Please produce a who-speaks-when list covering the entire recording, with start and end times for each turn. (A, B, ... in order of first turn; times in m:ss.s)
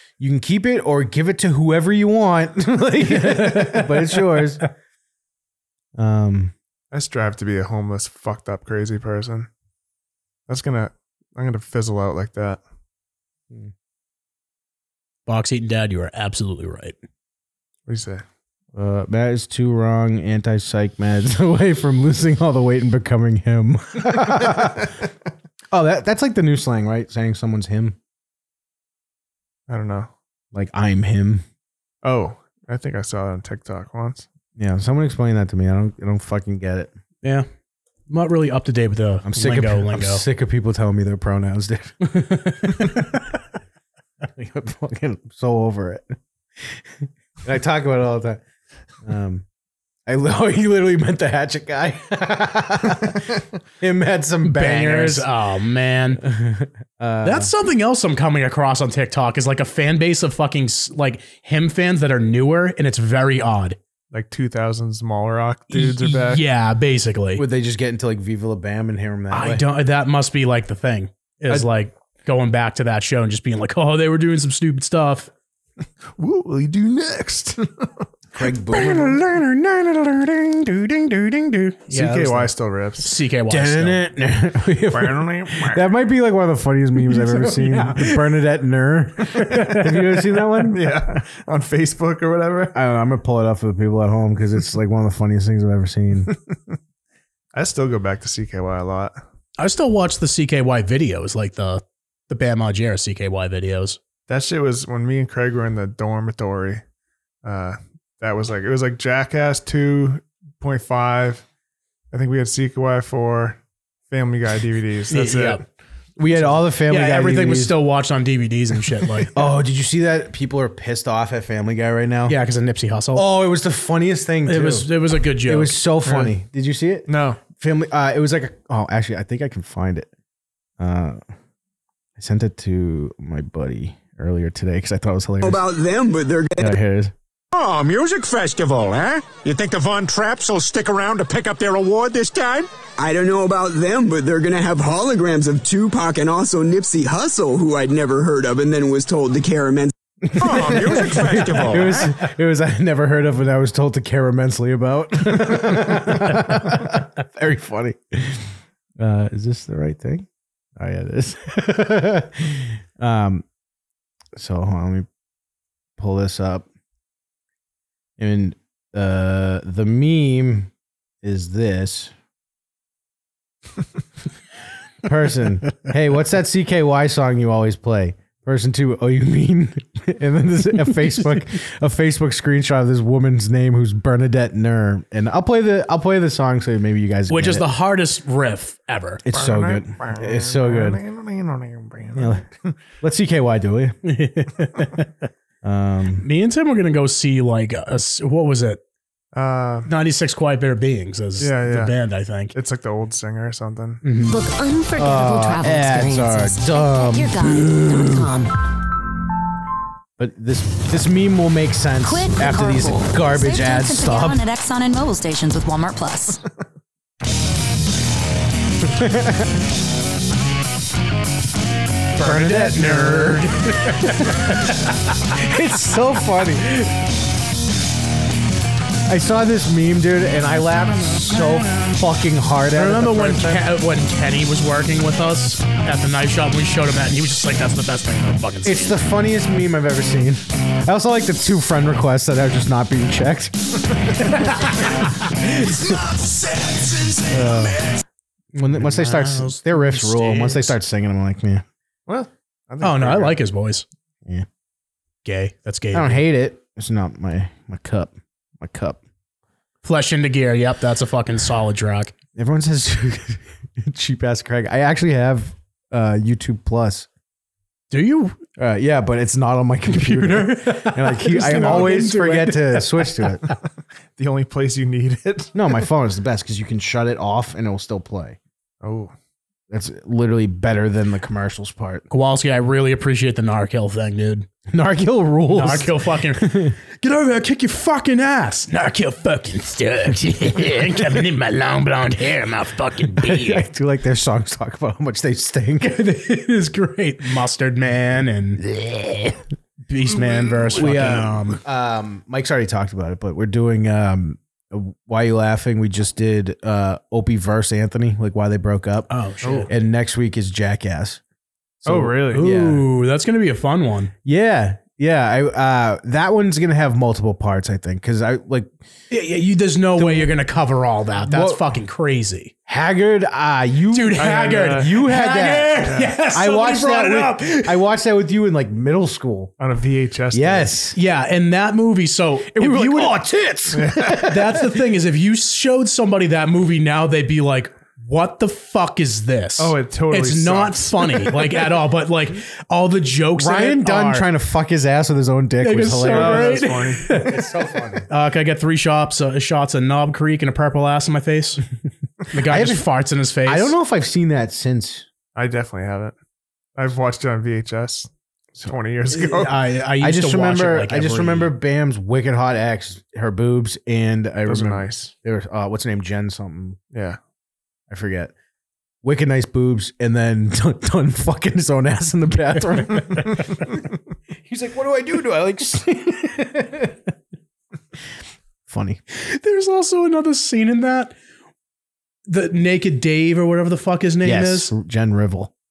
0:00.2-0:04.6 A
0:03.2-0:04.2 B
0:06.0-0:06.5 A
0:06.9-0:09.5 C
0:10.5-0:12.6 C
0:15.2-0:16.9 B
0:17.9-0:18.2 C
0:18.7-0:24.9 A
0:25.7-0:28.0 A
0:29.7-0:30.1 C
0:30.5-0:31.4 A
0:32.0-0:34.3 C
0:34.6-0:36.9 A
0:38.1-0:40.2 B
0:39.2-0:42.1 A
0:42.1-0:43.2 B
0:44.3-0:48.4 A
0:49.0-0:49.4 A
0:50.0-0:55.3 A
0:54.4-0:56.2 B
0:56.2-0:57.5 A
0:57.2-1:03.8 B
1:04.1-1:06.4 C
1:05.7-1:07.4 B
1:07.4-1:09.6 A
1:09.3-1:15.3 B
1:16.2-1:18.0 C
1:18.3-1:19.3 A
1:18.7-1:24.0 B
1:21.9-1:23.1 C
1:23.5-1:31.0 A
1:24.9-1:25.9 C
1:27.0-1:28.4 B
1:29.3-1:30.1 B
1:30.6-1:32.8 C
1:32.7-1:36.3 A
1:37.5-1:39.1 C
1:39.6-1:44.0 B
1:44.3-1:46.8 C
1:47.4-1:51.4 C
1:52.1-1:53.6 C
1:54.1-1:55.6 C
1:55.1-1:55.6 B
1:56.2-1:57.7 A
1:56.8-1:59.3 B
1:59.3-2:02.4 A
2:02.3-2:03.2 B
2:03.1-2:10.1 A
2:04.4-2:05.8 B
2:06.0-2:06.3 C
2:07.1-2:07.4 C
2:10.8-2:11.2 A
2:12.2-2:15.6 A
2:15.4-2:16.8 D
2:16.6-2:17.1 A
2:17.5-2:22.7 E
2:23.0-2:29.9 D
2:30.3-2:43.4 A
2:30.3-2:32.1 E
2:44.3-2:45.1 A
2:46.0-2:46.6 A
2:48.2-2:50.7 A
2:51.2-2:52.1 A
2:55.0-3:07.7 A
3:07.3-3:09.2 B
3:09.2-3:11.0 A
3:09.3-3:12.7 C
3:12.1-3:12.4 A
3:13.0-3:14.0 A
3:14.0-3:15.1 B
3:15.6-3:16.3 A
3:16.2-3:18.8 B
3:19.3-3:19.9 C
3:19.9-3:22.5 B
3:21.4-3:21.9 C
3:22.5-3:24.0 C
3:24.0-3:24.4 B
3:24.3-3:28.5 F
3:25.0-3:28.5 A
3:30.2-3:34.4 A
3:32.0-3:36.4 F
3:38.8-3:39.5 A
3:42.1-3:45.4 B
3:42.2-3:44.7 A
3:45.3-3:46.8 A
3:49.1-3:53.7 A
3:51.0-3:51.9 B
3:52.7-3:59.0 B
3:58.6-4:06.2 A
4:04.4-4:05.1 B
4:07.2-4:07.9 A
4:08.6-4:11.6 A
4:08.6-4:10.8 B
4:12.1-4:13.4 C
4:12.8-4:13.8 B
4:15.2-4:16.2 B
4:15.9-4:19.0 A
4:19.8-4:22.1 B
4:22.3-4:27.1 A
4:27.9-4:28.4 B
4:28.6-4:33.4 A
4:29.9-4:33.5 B
4:34.2-4:35.8 C
4:35.5-4:38.4 A
4:38.8-4:39.1 C
4:39.7-4:42.0 A
4:42.1-4:44.5 B
4:44.7-4:46.7 A
4:45.5-4:53.6 B
4:53.2-4:56.0 A
4:55.8-5:01.6 B
5:00.7-5:09.1 A
5:09.1-5:09.7 B
5:09.4-5:09.7 C
5:09.7-5:11.2 A
5:11.8-5:12.8 A
5:11.8-5:12.4 C
5:12.3-5:14.1 B
5:14.2-5:18.7 A
5:19.1-5:22.5 B
5:20.0-5:20.3 A
5:21.2-5:21.6 A
5:22.7-5:29.5 A
5:23.9-5:27.8 B
5:24.2-5:24.9 C
5:25.8-5:26.1 C
5:29.6-5:30.7 C
5:30.3-5:31.0 A
5:30.9-5:33.2 B
5:32.5-5:34.7 A
5:33.7-5:34.3 C
5:34.1-5:44.3 B
5:39.6-5:41.4 C
5:43.4-5:48.1 A
5:45.6-5:47.4 B
5:46.0-5:47.1 C
5:48.1-5:51.6 B
5:52.3-5:53.7 B
5:52.4-5:52.8 A
5:53.4-5:55.1 A
5:55.3-5:56.1 C
5:56.8-5:59.5 C
5:59.1-6:01.5 B
6:00.0-6:06.8 A
6:04.4-6:05.1 C
6:06.9-6:07.2 C
6:07.9-6:08.3 A
6:09.0-6:13.8 A
6:14.4-6:17.1 A
6:18.7-6:19.0 A
6:19.1-6:21.1 B
6:22.3-6:24.7 B
6:24.2-6:25.5 A